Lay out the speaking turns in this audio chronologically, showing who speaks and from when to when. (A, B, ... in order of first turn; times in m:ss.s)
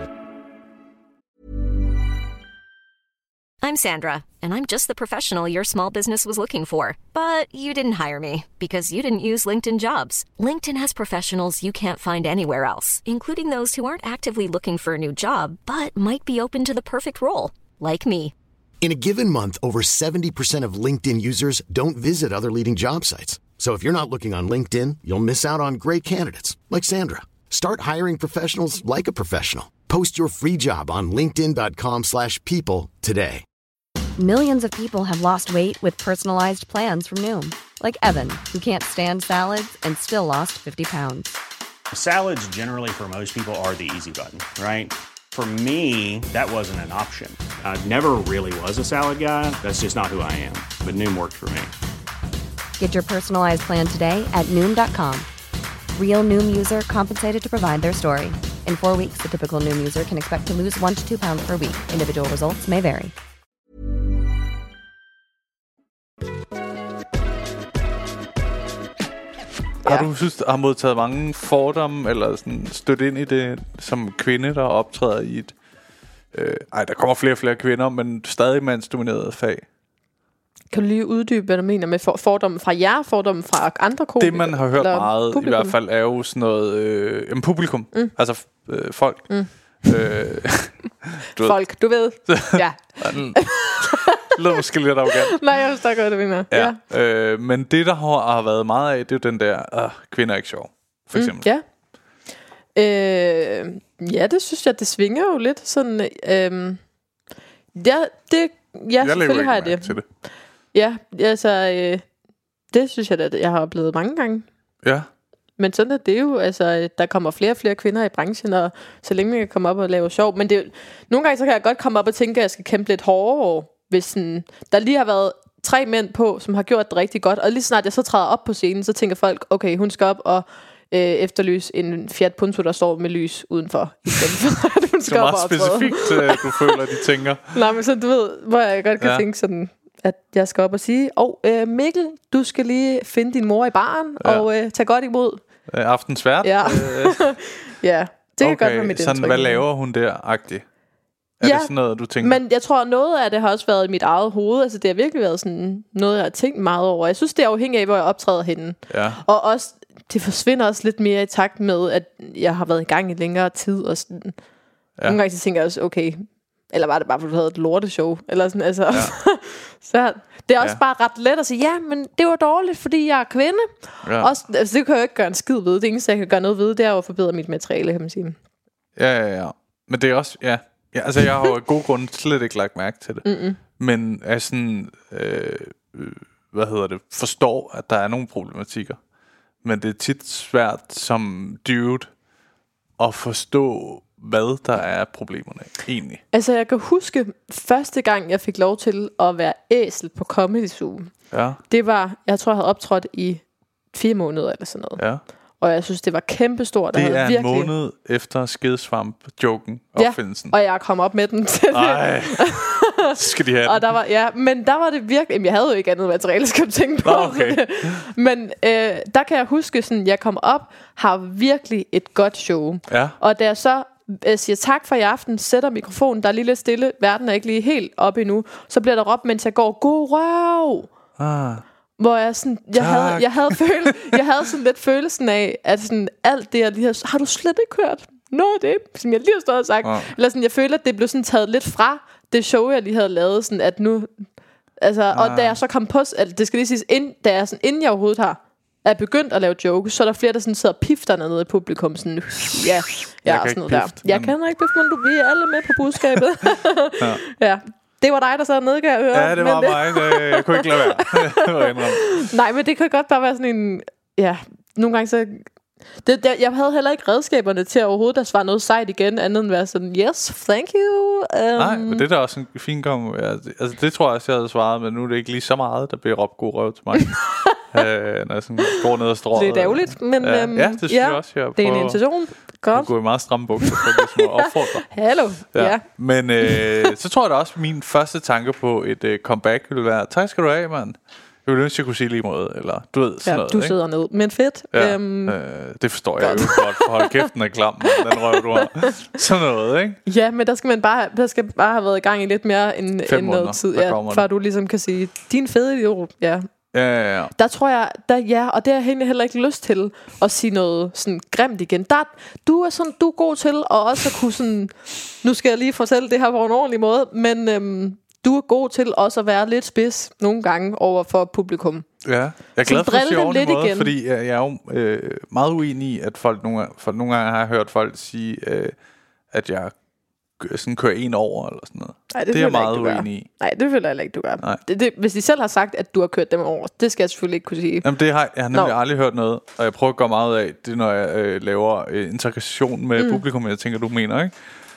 0:03.6-0:18.3 A
0:18.8-0:33.4 B
0:34.2-0:41.4 C
0:41.9-0:51.7 D
0:52.8-0:55.3 C
0:56.0-1:03.1 C
1:09.8-1:15.5 E
1:16.3-1:19.6 E
1:20.7-1:25.7 F
1:24.2-1:33.8 E
1:31.4-1:34.2 F
1:34.3-1:35.6 E
1:35.3-1:36.8 F
1:36.5-1:41.5 E
1:41.1-1:41.6 F
1:42.8-1:46.8 F
1:47.8-1:50.0 F
1:49.0-1:50.0 E
1:50.7-1:52.0 F
1:52.7-1:54.5 F
1:54.8-1:55.1 E
1:55.6-2:16.7 F
2:15.1-2:17.6 E
2:17.5-2:25.4 F
2:19.0-2:19.2 E
2:24.2-2:24.5 E
2:25.7-2:27.3 E
2:26.4-2:29.6 F
2:28.4-2:30.6 E
2:31.4-2:32.4 E
2:31.4-2:44.4 F
2:38.9-2:39.2 E
2:45.0-2:58.4 F
2:54.0-2:54.3 E
2:59.0-3:09.0 E
3:03.2-3:03.6 F
3:09.6-3:12.1 E
3:13.0-3:16.2 E
3:16.3-3:21.1 F
3:21.3-3:21.6 E
3:21.7-3:25.0 F
3:25.6-3:27.7 F
3:26.9-3:30.6 E
3:30.0-3:50.9 F
3:31.7-3:33.8 E
3:37.0-3:38.0 E
3:42.9-3:43.2 E
3:51.2-3:51.6 E
3:52.0-4:04.3 F
3:52.8-3:53.9 E
3:59.8-4:00.1 E
4:04.8-4:25.5 F
4:05.1-4:05.6 E
4:13.3-4:14.3 E
4:19.1-4:22.2 E
4:26.0-4:32.0 F
4:31.6-4:53.8 E
4:37.3-4:37.6 F
4:39.4-4:42.9 F
4:43.6-4:44.3 F
4:44.9-4:45.9 F
4:53.3-4:55.4 F
4:54.7-5:00.0 E
4:56.2-4:57.3 F
4:57.9-4:58.9 F
5:00.1-5:06.5 F
5:03.1-5:04.2 E
5:06.7-5:07.3 E
5:07.4-5:21.9 F
5:22.0-5:28.7 E
5:22.6-5:23.9 F
5:29.3-5:29.7 E
5:30.4-5:33.3 E
5:32.1-5:37.9 F
5:37.8-5:44.3 E
5:43.0-5:43.2 F